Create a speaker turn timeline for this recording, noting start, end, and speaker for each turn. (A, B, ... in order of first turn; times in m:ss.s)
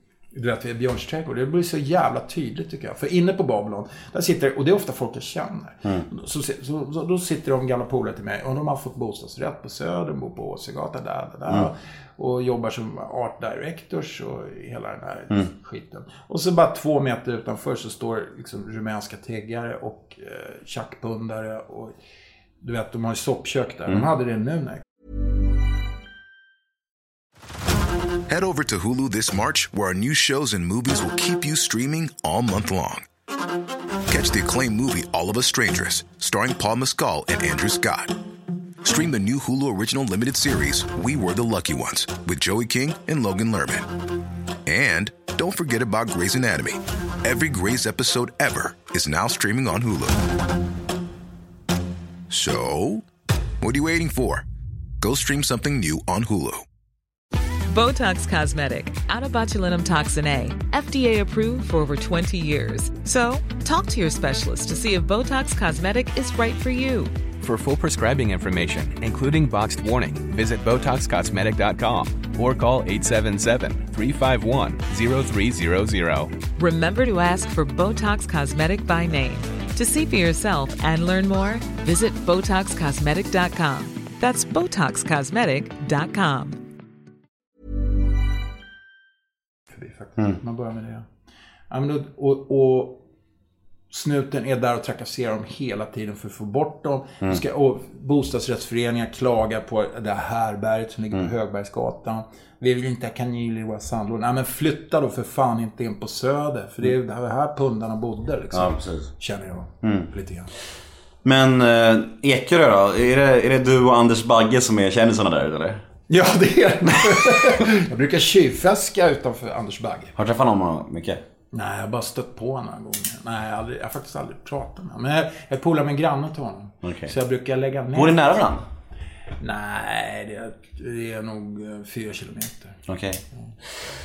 0:00.3-0:21.9 A
0:22.6-0:24.8 A
0:28.3-0:33.0 B
0:34.1-0:38.1 B
0:38.8-0:43.9 B
0:44.6-0:50.2 B
0:52.3-0:53.0 B
0:53.6-0:54.4 B
0:55.0-0:56.6 B
0:57.7-1:07.1 C
1:07.4-1:16.3 D
1:16.5-1:26.6 C
1:29.7-1:31.1 A
1:31.7-1:33.0 A
1:33.9-1:50.5 A
1:48.5-1:49.1 E
1:49.8-1:50.1 E
1:51.2-1:55.8 E
1:56.1-2:00.1 A
2:00.2-2:01.2 E
2:01.5-2:08.2 A
2:06.8-2:07.1 E
2:07.9-2:08.6 E
2:09.4-2:12.8 A
2:12.9-2:13.2 E